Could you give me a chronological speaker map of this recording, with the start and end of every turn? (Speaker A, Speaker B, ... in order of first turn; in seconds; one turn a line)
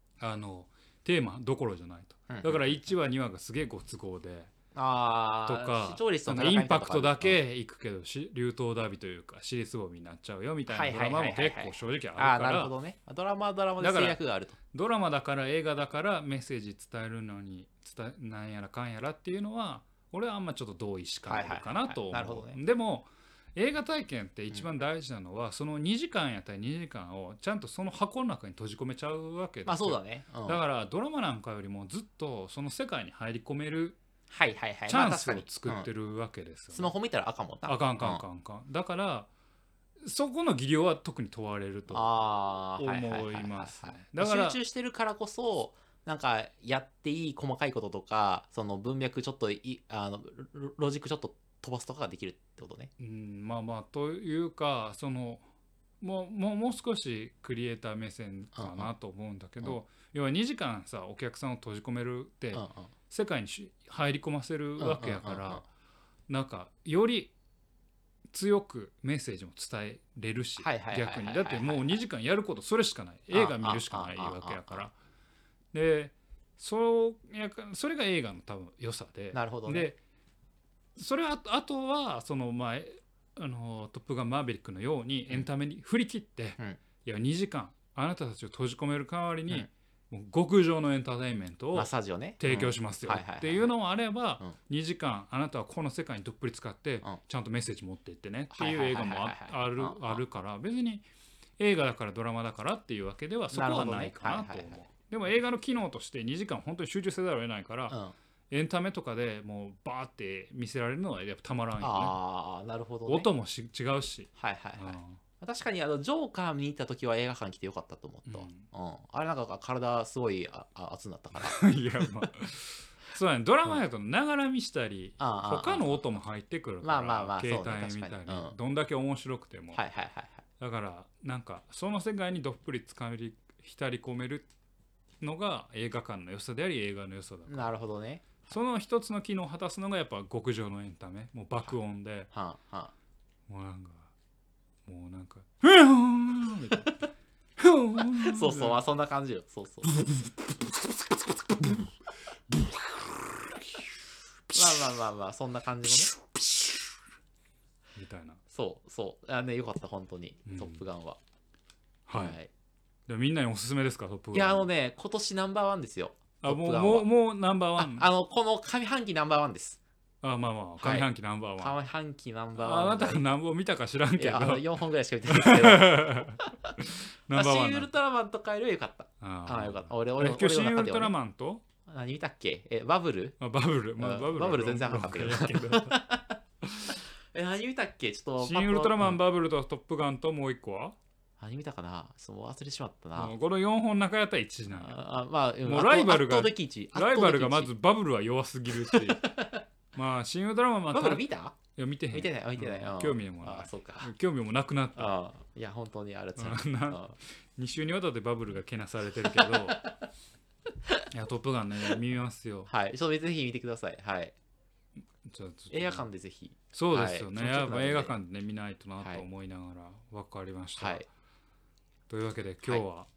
Speaker A: 0.2-4.5
Speaker B: 2.3-2.8
Speaker B: 4.8-7.4
Speaker A: 5.5-12.7
Speaker B: 10.7-14.6
Speaker A: 13.8-14.2
Speaker A: 14.7-34.0
Speaker B: 21.3-22.6
Speaker B: 29.6-30.6
Speaker B: 34.3-35.9
Speaker A: 34.9-36.9
Speaker B: 36.7-38.2
Speaker A: 37.6-39.3
Speaker A: 40.0-42.1
Speaker B: 41.9-52.9
Speaker A: 42.8-44.6
Speaker A: 53.0-55.5
Speaker A: 56.0-65.7
Speaker B: 58.5-58.9
Speaker B: 62.5-62.9
Speaker B: 64.8-65.6
Speaker A: 66.3-67.3
Speaker A: 68.3-75.0
Speaker B: 70.6-72.0
Speaker B: 73.3-74.8
Speaker A: 75.7-80.0
Speaker B: 79.3-79.9
Speaker A: 81.0-101.1
Speaker B: 91.7-93.7
Speaker B: 98.5-100.2
Speaker A: 101.6-108.0
Speaker B: 103.5-104.8
Speaker B: 107.9-108.1
Speaker A: 108.5-112.2
Speaker B: 111.8-113.3
Speaker A: 113.1-115.2
Speaker B: 114.4-122.1
Speaker A: 118.3-118.6
Speaker A: 121.4-129.8
Speaker B: 125.2-126.0
Speaker B: 126.8-128.6
Speaker B: 129.7-130.4
Speaker A: 130.6-134.5
Speaker A: 135.2-137.7
Speaker B: 137.5-138.6
Speaker A: 138.5-142.3
Speaker B: 142.3-142.9
Speaker A: 143.5-144.1
Speaker A: 144.9-146.9
Speaker A: 147.6-148.8
Speaker B: 148.2-150.0
Speaker A: 150.0-150.3
Speaker A: 150.8-151.9
Speaker B: 151.6-151.9
Speaker A: 152.5-153.8
Speaker A: 154.5-154.9
Speaker B: 154.5-156.1
Speaker A: 155.9-156.8
Speaker A: 157.9-158.4
Speaker B: 158.5-161.2
Speaker A: 160.5-160.8
Speaker A: 162.1-162.4
Speaker B: 162.1-162.5
Speaker A: 163.1-164.7
Speaker B: 164.3-167.1
Speaker A: 166.4-168.1
Speaker B: 167.8-169.8
Speaker A: 170.2-171.8
Speaker B: 170.8-173.2
Speaker A: 172.6-174.7
Speaker B: 174.2-176.8
Speaker A: 175.3-177.9
Speaker B: 177.3-181.1
Speaker A: 179.2-181.6
Speaker B: 181.9-183.4
Speaker A: 183.4-185.9
Speaker B: 184.0-186.4
Speaker A: 186.6-187.0
Speaker B: 187.3-189.2
Speaker A: 188.4-191.0
Speaker B: 191.4-193.3
Speaker A: 193.2-195.0
Speaker B: 194.7-197.7
Speaker A: 195.6-199.4
Speaker B: 198.8-199.6
Speaker A: 199.9-205.1
Speaker B: 200.9-201.6
Speaker B: 202.1-204.1
Speaker B: 205.0-207.2
Speaker A: 206.4-209.8
Speaker B: 209.4-210.0
Speaker A: 211.1-212.7
Speaker B: 212.7-214.3
Speaker A: 215.2-216.1
Speaker B: 215.7-218.1
Speaker A: 216.7-221.1
Speaker B: 219.0-219.2
Speaker B: 220.8-221.1
Speaker A: 222.1-223.1